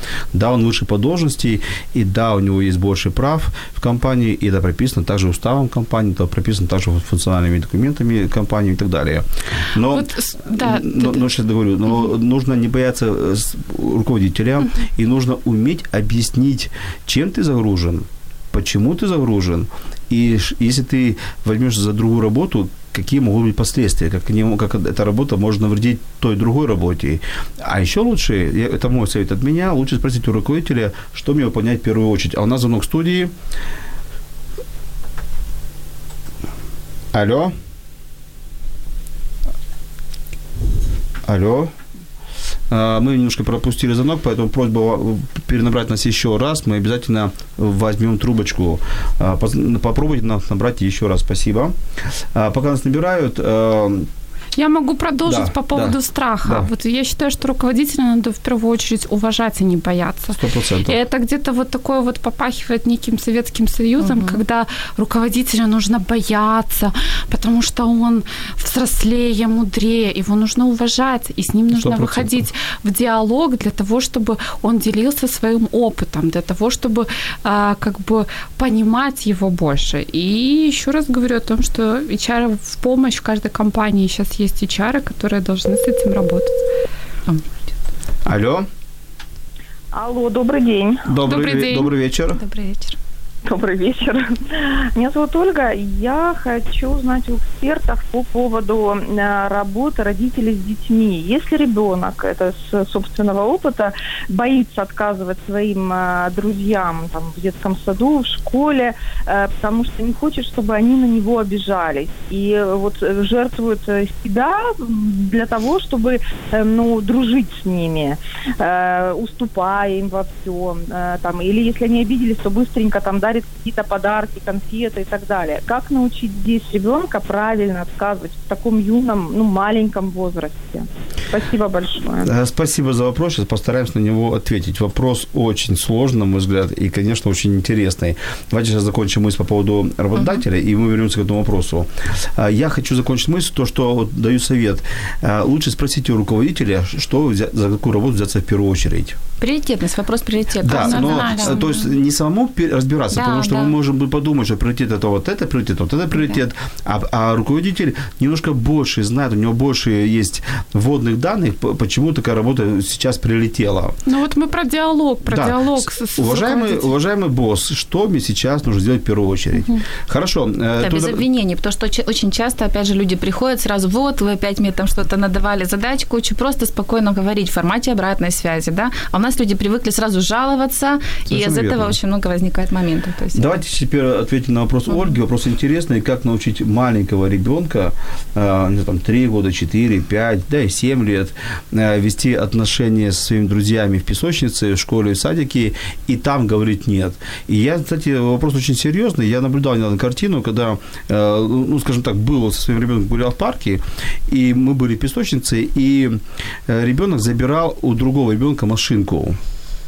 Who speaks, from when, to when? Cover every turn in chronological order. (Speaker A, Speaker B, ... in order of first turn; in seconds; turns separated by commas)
Speaker A: 0.3-33.3, Speaker B: 9.9-11.3, Speaker A: 37.1-37.5, Speaker A: 41.2-41.7, Speaker A: 42.7-51.7, Speaker A: 52.3-54.1, Speaker B: 54.6-86.5, Speaker A: 55.2-56.7, Speaker A: 60.3-61.0, Speaker C: 64.0-64.4, Speaker A: 71.7-72.5, Speaker A: 88.2-88.7, Speaker D: 89.9-91.0, Speaker A: 91.1-92.4, Speaker B: 91.2-91.9, Speaker C: 92.3-93.0, Speaker D: 93.5-132.3, Speaker A: 132.2-149.2, Speaker C: 149.4-151.6, Speaker A: 150.6-164.0, Speaker B: 150.8-151.7, Speaker C: 153.1-153.7, Speaker B: 164.1-166.9, Speaker A: 165.2-171.2, Speaker C: 170.8-183.5, Speaker A: 181.3-182.0, Speaker A: 183.3-209.4